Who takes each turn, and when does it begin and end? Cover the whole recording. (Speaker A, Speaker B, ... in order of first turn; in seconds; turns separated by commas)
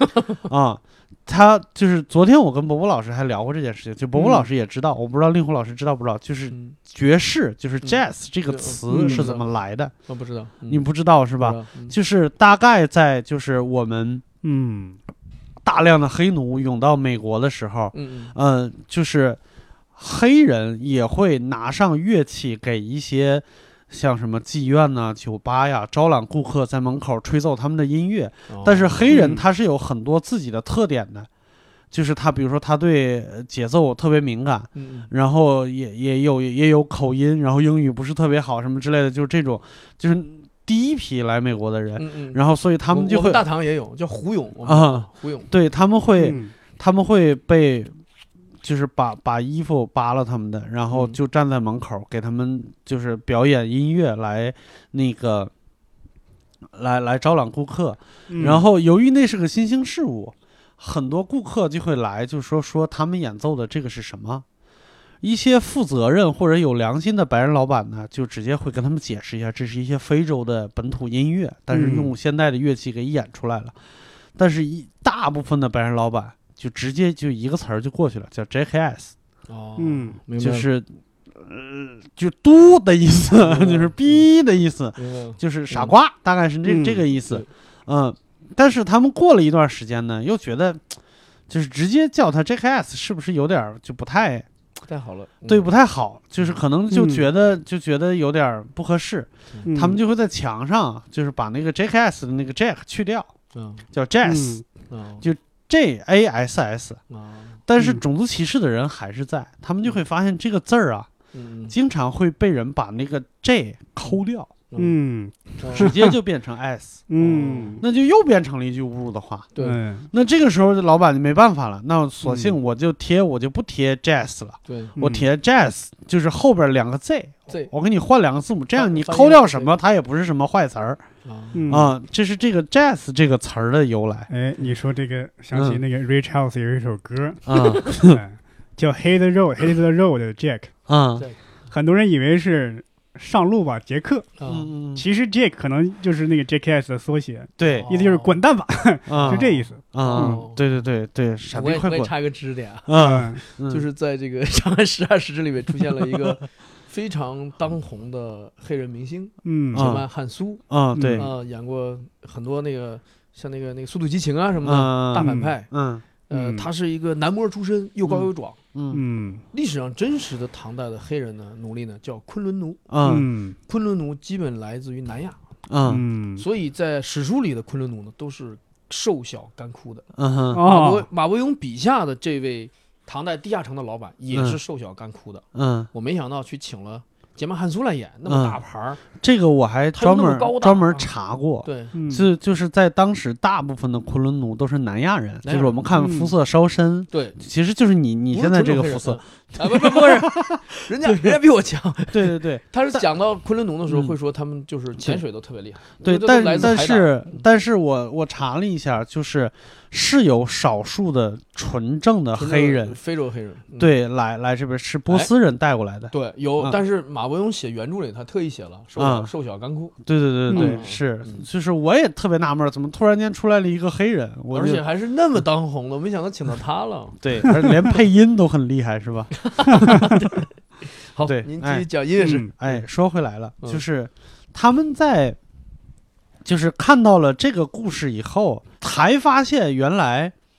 Speaker A: 0.4-9.9, Speaker B: 4.2-4.4, Speaker B: 6.5-6.8, Speaker B: 7.8-9.5, Speaker C: 8.9-9.3, Speaker B: 10.1-10.9, Speaker A: 10.7-14.2, Speaker B: 11.4-11.9, Speaker C: 14.4-15.0, Speaker A: 15.6-19.4, Speaker B: 17.9-18.3, Speaker A: 19.9-31.3, Speaker B: 28.5-29.4, Speaker A: 31.9-43.4, Speaker B: 34.7-35.1, Speaker B: 42.0-45.5, Speaker A: 44.6-47.9, Speaker C: 46.2-46.5, Speaker A: 48.6-55.5, Speaker B: 50.9-51.2, Speaker A: 56.7-64.4, Speaker C: 58.3-58.6, Speaker B: 58.4-58.6, Speaker A: 65.2-73.8, Speaker C: 71.7-72.1, Speaker A: 74.3-79.1, Speaker B: 79.5-80.7, Speaker C: 79.8-80.2, Speaker A: 80.4-90.8, Speaker B: 83.4-84.2, Speaker B: 85.0-85.9, Speaker C: 86.6-87.0, Speaker A: 91.5-94.5, Speaker B: 94.9-95.7, Speaker A: 95.5-103.3, Speaker C: 96.9-97.2, Speaker C: 99.7-100.0, Speaker B: 103.5-103.8, Speaker A: 103.9-104.6, Speaker C: 104.2-104.6, Speaker B: 104.9-105.2, Speaker A: 105.2-107.0, Speaker B: 107.1-107.6, Speaker A: 107.7-111.1, Speaker C: 107.8-108.0, Speaker B: 111.3-111.7, Speaker A: 111.7-114.5, Speaker B: 114.7-115.0, Speaker C: 114.8-116.2, Speaker B: 115.6-115.9, Speaker A: 115.8-117.0, Speaker C: 117.1-117.8, Speaker B: 117.2-117.8, Speaker A: 117.8-119.5, Speaker C: 119.6-120.1, Speaker A: 120.1-131.0, Speaker C: 122.2-122.5, Speaker B: 124.7-124.9, Speaker C: 125.0-125.3, Speaker B: 128.7-129.8, Speaker B: 131.2-131.7, Speaker C: 131.5-131.9, Speaker A: 131.7-134.3, Speaker C: 134.3-140.7, Speaker A: 135.5-135.8, Speaker A: 137.4-138.2, Speaker A: 140.9-141.2, Speaker C: 141.7-144.3, Speaker B: 144.4-144.7, Speaker A: 144.5-145.0, Speaker C: 144.9-150.4, Speaker A: 147.6-147.9, Speaker B: 147.7-148.4, Speaker A: 149.1-152.1, Speaker B: 149.1-150.6, Speaker B: 151.5-160.6, Speaker A: 152.8-153.8, Speaker C: 153.0-153.4, Speaker C: 159.4-159.9, Speaker A: 159.7-160.0, Speaker A: 160.7-161.3, Speaker C: 160.9-161.3, Speaker B: 161.1-165.7, Speaker A: 164.6-166.6, Speaker C: 165.2-165.5, Speaker B: 166.3-168.6, Speaker A: 168.1-169.0, Speaker C: 168.9-169.4, Speaker B: 169.5-172.8, Speaker A: 172.9-173.3, Speaker C: 173.0-173.6, Speaker B: 173.7-175.4, Speaker A: 175.7-176.0, Speaker C: 175.8-176.4, Speaker B: 176.4-189.0, Speaker A: 180.2-180.6, Speaker C: 180.5-181.1, Speaker A: 184.3-184.6, Speaker A: 185.5-185.9, Speaker A: 188.3-188.6, Speaker A: 189.1-201.4, Speaker B: 189.9-191.1, Speaker B: 191.6-191.9, Speaker C: 191.9-192.3, Speaker B: 195.4-195.8, Speaker C: 195.9-196.3, Speaker B: 197.1-197.4, Speaker B: 198.3-207.4, Speaker A: 202.1-203.0, Speaker A: 203.9-204.1, Speaker A: 206.0-213.0, Speaker B: 212.3-213.9, Speaker A: 213.8-216.8, Speaker B: 216.1-219.9, Speaker A: 219.0-219.3, Speaker A: 220.0-224.8, Speaker C: 220.5-220.8, Speaker B: 220.5-221.4, Speaker B: 224.5-227.2, Speaker A: 227.2-230.2, Speaker B: 229.4-232.8, Speaker A: 231.2-235.4, Speaker C: 232.2-232.5, Speaker A: 236.4-240.3